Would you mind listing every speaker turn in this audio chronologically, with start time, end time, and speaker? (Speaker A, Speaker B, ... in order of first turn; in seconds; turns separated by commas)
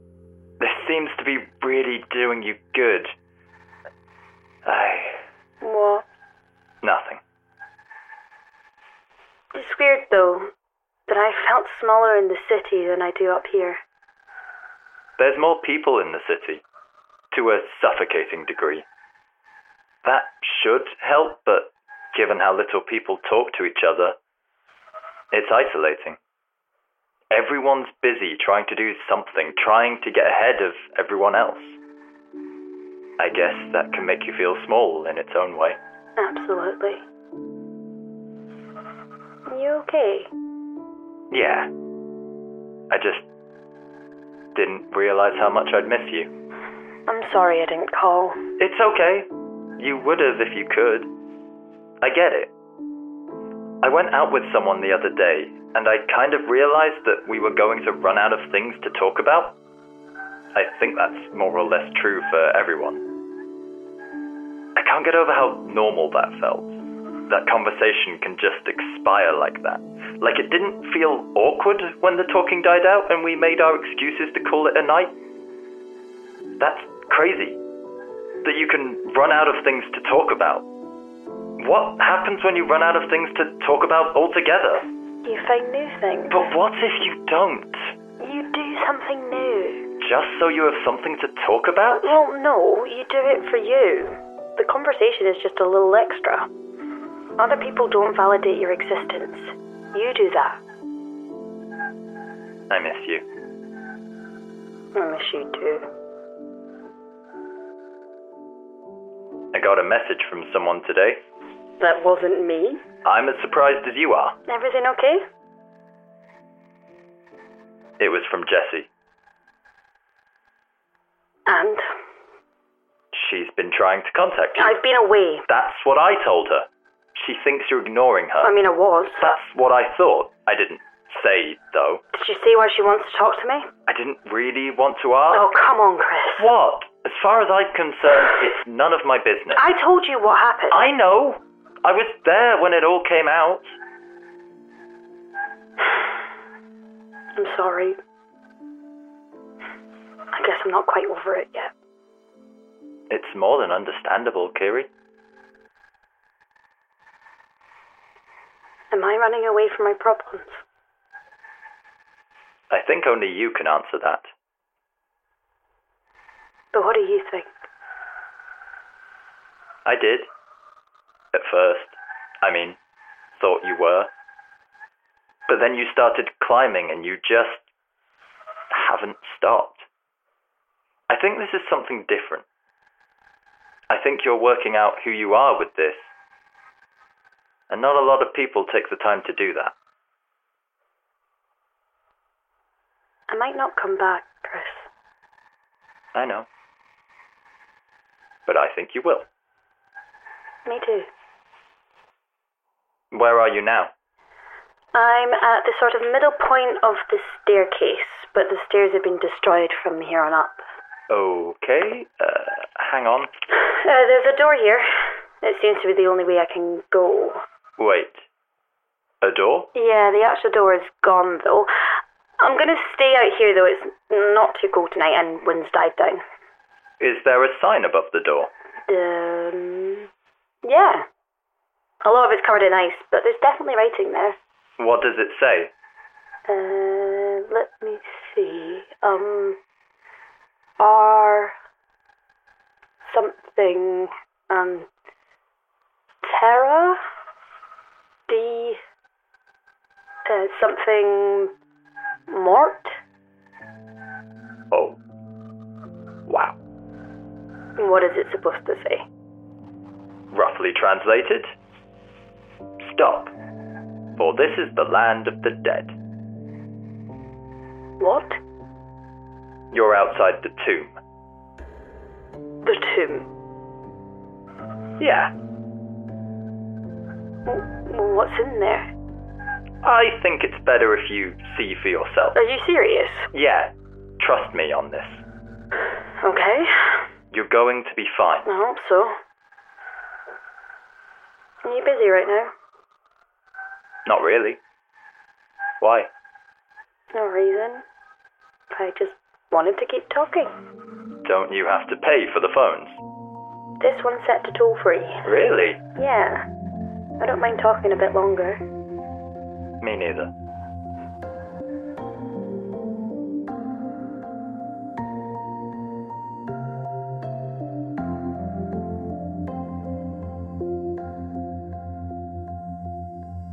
Speaker A: 0.6-3.1, Speaker A: 4.7-5.2, Speaker B: 5.6-6.0, Speaker A: 6.8-7.2, Speaker B: 9.5-10.5, Speaker B: 11.1-13.8, Speaker A: 15.2-16.6, Speaker A: 17.3-18.8, Speaker A: 20.0-24.1, Speaker A: 25.3-26.2, Speaker A: 27.3-31.8, Speaker A: 33.2-35.8, Speaker B: 36.2-37.0, Speaker B: 39.5-40.3, Speaker A: 41.3-41.7, Speaker A: 42.9-43.2, Speaker A: 44.5-46.3, Speaker B: 47.1-48.5, Speaker A: 48.6-49.3, Speaker A: 49.8-51.1, Speaker A: 52.0-52.5, Speaker A: 53.8-59.5, Speaker A: 60.5-63.0, Speaker A: 64.8-66.8, Speaker A: 67.3-75.1, Speaker A: 76.6-77.6, Speaker A: 78.4-80.6, Speaker A: 81.6-84.9, Speaker B: 85.2-86.4, Speaker A: 86.3-87.9, Speaker B: 88.2-89.9, Speaker A: 90.0-92.2, Speaker B: 92.0-96.5, Speaker B: 97.4-100.6, Speaker A: 102.7-103.2, Speaker B: 104.9-105.9, Speaker A: 109.5-111.2, Speaker B: 111.8-112.8, Speaker A: 113.0-114.4, Speaker B: 114.5-115.2, Speaker A: 118.0-118.9, Speaker B: 121.5-121.8, Speaker A: 123.1-124.8, Speaker B: 124.6-125.4, Speaker A: 125.5-126.7, Speaker A: 127.2-128.5, Speaker B: 128.4-129.3, Speaker A: 129.2-132.0, Speaker B: 132.1-133.7, Speaker A: 133.9-135.5, Speaker B: 135.3-136.5, Speaker A: 136.4-139.6, Speaker B: 139.6-140.9, Speaker A: 140.7-143.7, Speaker B: 147.4-147.9, Speaker B: 150.3-151.7, Speaker A: 153.1-154.9, Speaker B: 158.9-160.6, Speaker A: 162.7-164.3, Speaker B: 166.7-167.7, Speaker A: 169.8-170.3, Speaker A: 171.3-172.8, Speaker A: 173.4-174.1, Speaker A: 175.5-177.6, Speaker A: 178.7-179.8, Speaker A: 181.1-182.4, Speaker A: 183.9-186.1, Speaker A: 187.7-189.7, Speaker B: 193.3-194.9, Speaker A: 196.1-196.4, Speaker A: 198.5-199.3, Speaker B: 200.6-201.1, Speaker A: 203.1-203.9, Speaker B: 204.9-210.6, Speaker A: 211.1-213.3, Speaker B: 213.5-217.4, Speaker A: 217.8-218.2, Speaker A: 219.2-219.7, Speaker B: 219.7-221.7, Speaker B: 222.4-226.2, Speaker A: 227.0-228.5, Speaker B: 228.9-230.1, Speaker B: 230.6-231.1, Speaker B: 232.0-234.4, Speaker A: 234.8-235.7, Speaker B: 236.5-239.6, Speaker B: 240.8-241.5, Speaker B: 243.0-244.9, Speaker B: 246.2-247.0, Speaker B: 248.3-248.8, Speaker B: 250.2-251.5, Speaker B: 252.3-253.0, Speaker A: 254.7-255.0, Speaker A: 256.3-256.5, Speaker B: 257.8-259.0, Speaker A: 260.3-261.5, Speaker A: 262.8-263.3, Speaker A: 264.2-265.9, Speaker B: 268.0-268.4, Speaker A: 269.7-270.9, Speaker B: 272.6-273.3, Speaker A: 275.0-275.3, Speaker B: 277.4-278.9, Speaker A: 279.8-282.4, Speaker B: 282.3-283.3, Speaker A: 283.3-285.2, Speaker B: 286.2-287.1, Speaker A: 287.3-288.5, Speaker B: 288.4-289.1, Speaker B: 291.6-292.5, Speaker A: 294.1-294.6, Speaker A: 295.8-296.1, Speaker B: 297.1-297.8, Speaker B: 298.7-300.5, Speaker A: 301.2-303.0, Speaker B: 303.8-305.2, Speaker A: 305.2-305.8, Speaker B: 305.9-306.4, Speaker B: 307.2-308.6, Speaker A: 309.8-310.3